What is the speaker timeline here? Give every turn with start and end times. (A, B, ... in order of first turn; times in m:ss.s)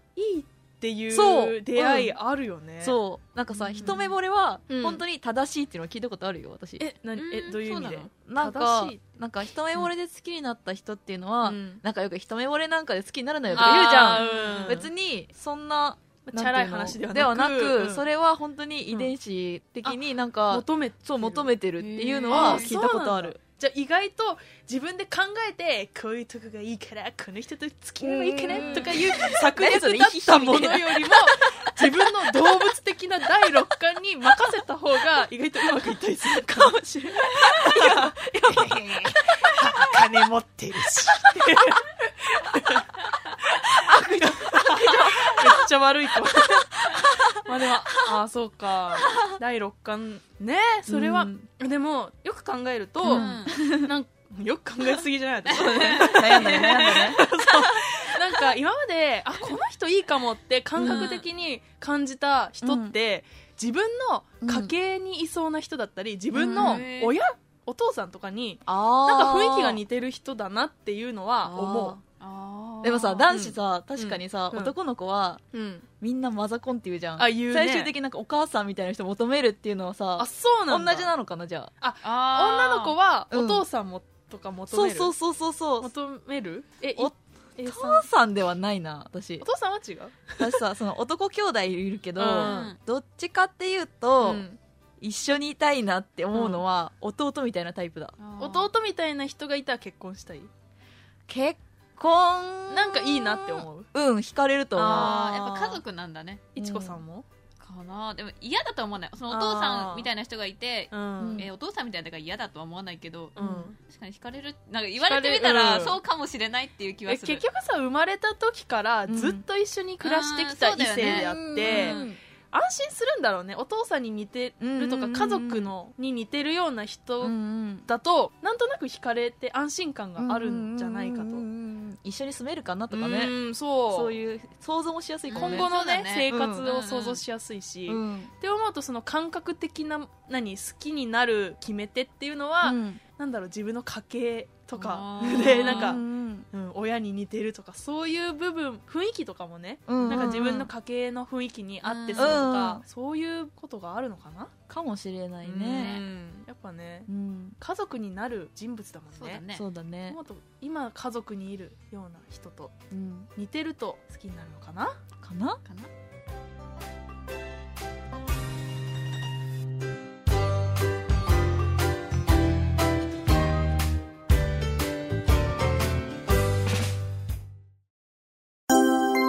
0:00.2-0:03.0 A
0:01.1-0:02.2 B
0:02.8-0:06.8 B
0:04.7-0:05.0 A
0:06.8-0:09.0 A
0:07.1-0:08.1 C
0:08.2-0:23.4 B
0:11.4-0:11.8 A
0:13.5-0:14.8 C
0:13.5-0:14.9 A
0:16.3-0:18.0 A
0:19.8-1:12.0 A
0:21.8-0:22.8 C
0:28.0-0:32.0 B
0:28.5-0:29.0 C
0:36.4-0:39.9 B
0:41.1-0:41.5 B
0:43.8-0:45.6 B
0:46.8-0:47.4 B
0:50.9-0:51.5 B
0:53.0-0:53.9 B
0:53.0-0:53.5 C
0:55.5-0:57.2 C
0:55.5-0:57.8 B
1:00.8-1:01.1 B
1:00.8-1:01.3 C
1:02.6-1:03.0 B
1:04.4-1:04.7 B
1:06.3-1:06.9 B
1:06.5-1:07.2 C
1:08.7-1:09.8 B
1:11.4-1:12.0 B
1:12.2-1:13.3 C
1:12.8-1:15.4 B
1:13.3-1:14.7 A
1:15.5-1:15.9 A
1:16.0-1:21.7 B
1:17.2-1:17.9 A
1:20.2-1:21.1 A
1:21.8-1:25.1 A
1:22.0-1:23.0 C
1:23.3-1:23.7 B
1:24.7-1:25.9 B
1:25.8-1:28.1 A
1:27.6-1:29.5 B
1:29.4-1:30.6 A
1:30.4-1:34.4 B
1:32.2-1:32.7 A
1:32.4-1:32.8 C
1:34.2-1:34.6 A
1:35.0-1:38.2 B
1:36.3-1:36.6 A
1:38.2-1:38.7 C
1:38.4-1:40.5 A
1:41.3-1:45.8 B
1:42.7-1:43.9 A
1:44.8-1:46.4 C
1:44.8-1:45.2 A
1:46.6-1:47.3 A
1:46.6-1:47.0 B
1:47.6-1:57.4 C
1:49.3-1:50.1 A
1:50.9-1:51.5 A
1:51.2-1:51.5 B
1:53.4-1:53.8 A
1:53.4-1:53.7 B
1:55.0-1:56.0 A
1:57.1-2:02.0 A
1:59.1-1:59.4 B
2:00.0-2:02.1 C
2:01.0-2:02.2 B
2:02.5-2:11.4 A
2:04.6-2:05.7 B
2:07.2-2:07.9 B
2:10.2-2:13.4 B
2:12.9-2:14.1 A
2:13.9-2:15.7 B
2:15.3-2:17.2 C
2:15.4-2:34.5 A
2:16.3-2:16.6 B
2:17.9-2:18.3 B
2:22.6-2:23.0 B
2:24.8-2:26.0 C
2:25.2-2:26.5 B
2:29.9-2:30.7 B
2:31.8-2:32.5 C
2:32.2-2:32.8 B
2:34.7-2:36.0 B
2:35.4-2:37.1 A
2:35.7-2:36.4 C
2:37.1-2:37.6 B
2:37.6-2:39.4 A
2:39.2-2:39.6 C
2:39.5-2:40.2 B
2:40.1-2:42.8 A
2:42.9-2:43.3 B
2:43.4-2:45.0 A
2:45.2-2:45.6 B
2:45.6-2:45.9 C